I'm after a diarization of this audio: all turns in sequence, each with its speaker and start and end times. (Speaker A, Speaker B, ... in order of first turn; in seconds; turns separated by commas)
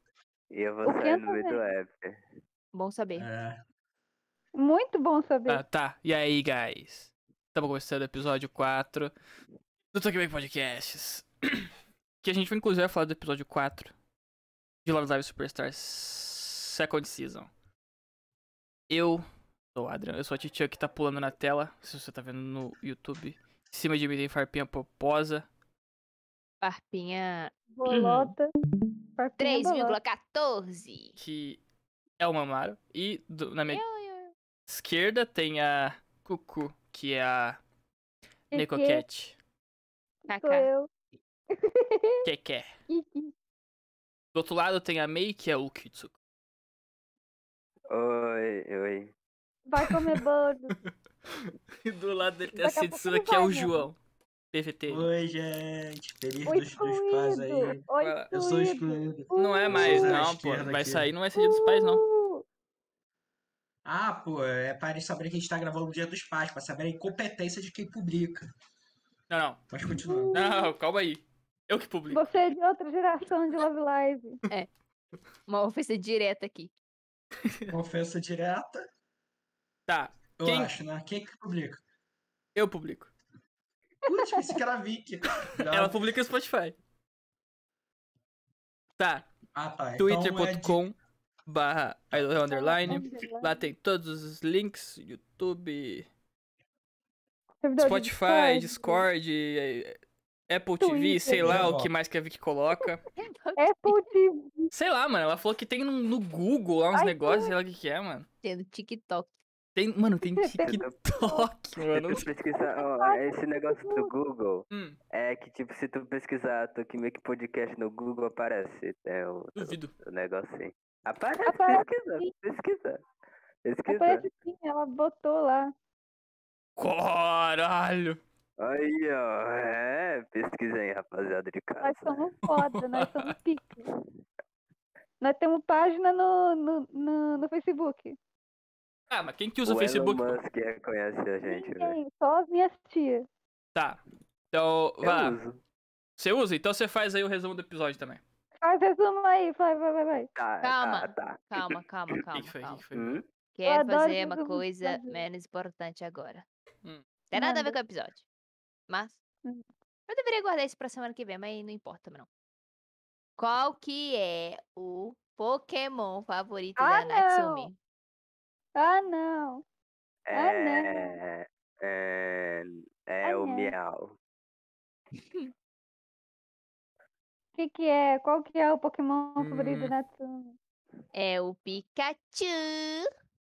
Speaker A: 0.5-2.2, Speaker B: 0.8-1.6, Speaker C: 2.7-3.3, Speaker D: 3.1-3.6, Speaker B: 4.5-5.6, Speaker E: 5.5-9.1, Speaker E: 9.9-11.7, Speaker E: 12.2-13.9, Speaker E: 14.8-17.5, Speaker E: 18.9-25.4, Speaker C: 26.6-28.3, Speaker B: 27.7-28.5, Speaker B: 29.2-30.0, Speaker C: 29.4-31.2, Speaker E: 31.2-31.6, Speaker E: 32.2-33.8, Speaker C: 33.7-34.3, Speaker E: 34.7-37.6, Speaker B: 38.5-39.0, Speaker E: 38.5-39.4, Speaker C: 40.3-40.7, Speaker B: 40.3-40.9, Speaker B: 41.5-42.3, Speaker E: 42.2-42.7, Speaker B: 42.9-43.3, Speaker E: 44.3-46.1, Speaker A: 47.9-49.1, Speaker B: 49.6-50.7, Speaker E: 49.8-50.1, Speaker E: 51.8-54.0, Speaker B: 52.5-53.8, Speaker E: 54.5-55.1, Speaker D: 54.9-61.1, Speaker B: 56.5-60.2, Speaker E: 58.0-58.3, Speaker E: 59.4-62.0, Speaker B: 61.3-62.4, Speaker D: 63.9-68.5, Speaker E: 69.3-69.6, Speaker D: 69.7-70.4, Speaker B: 69.9-70.8, Speaker E: 70.3-72.3, Speaker B: 72.1-74.4, Speaker C: 75.5-76.7, Speaker E: 77.5-77.7, Speaker D: 77.7-78.8, Speaker E: 79.9-80.7, Speaker D: 80.4-81.8, Speaker E: 82.5-83.1, Speaker D: 84.0-86.0, Speaker E: 85.6-86.8, Speaker E: 89.0-89.3, Speaker D: 89.5-90.8, Speaker E: 90.0-96.1, Speaker B: 92.5-93.6, Speaker B: 97.6-99.1, Speaker E: 97.8-100.0, Speaker E: 100.5-103.0, Speaker B: 100.8-101.6, Speaker D: 101.4-101.9, Speaker C: 103.2-104.0, Speaker B: 103.6-104.7, Speaker E: 104.7-108.2, Speaker B: 106.9-107.5, Speaker C: 108.4-109.3, Speaker E: 109.8-112.3, Speaker B: 110.3-111.5, Speaker A: 110.6-111.0, Speaker A: 111.9-123.0, Speaker B: 112.1-114.1, Speaker E: 114.7-115.0, Speaker E: 119.5-119.9, Speaker B: 121.4-122.3, Speaker A: 123.6-124.2, Speaker B: 123.8-125.7, Speaker E: 126.8-128.2, Speaker A: 128.6-132.3, Speaker B: 131.8-133.8, Speaker E: 132.5-133.3, Speaker B: 135.2-138.2, Speaker E: 139.1-140.4, Speaker A: 139.6-141.9, Speaker B: 141.4-143.3, Speaker E: 143.7-144.0, Speaker E: 144.5-145.4, Speaker A: 145.0-145.6, Speaker E: 146.2-148.2, Speaker B: 148.6-150.3, Speaker A: 150.3-151.8, Speaker C: 150.6-152.8, Speaker E: 152.3-153.2, Speaker A: 152.9-153.2, Speaker C: 153.5-156.4, Speaker B: 153.6-155.2, Speaker C: 157.3-158.2, Speaker B: 157.3-157.8, Speaker C: 158.9-159.2, Speaker C: 160.1-162.3, Speaker C: 163.4-167.8, Speaker B: 166.8-167.7, Speaker B: 168.8-169.6, Speaker A: 170.3-174.2, Speaker B: 170.3-171.2, Speaker B: 173.2-173.7, Speaker B: 177.5-180.6, Speaker E: 179.4-179.9, Speaker C: 181.1-183.1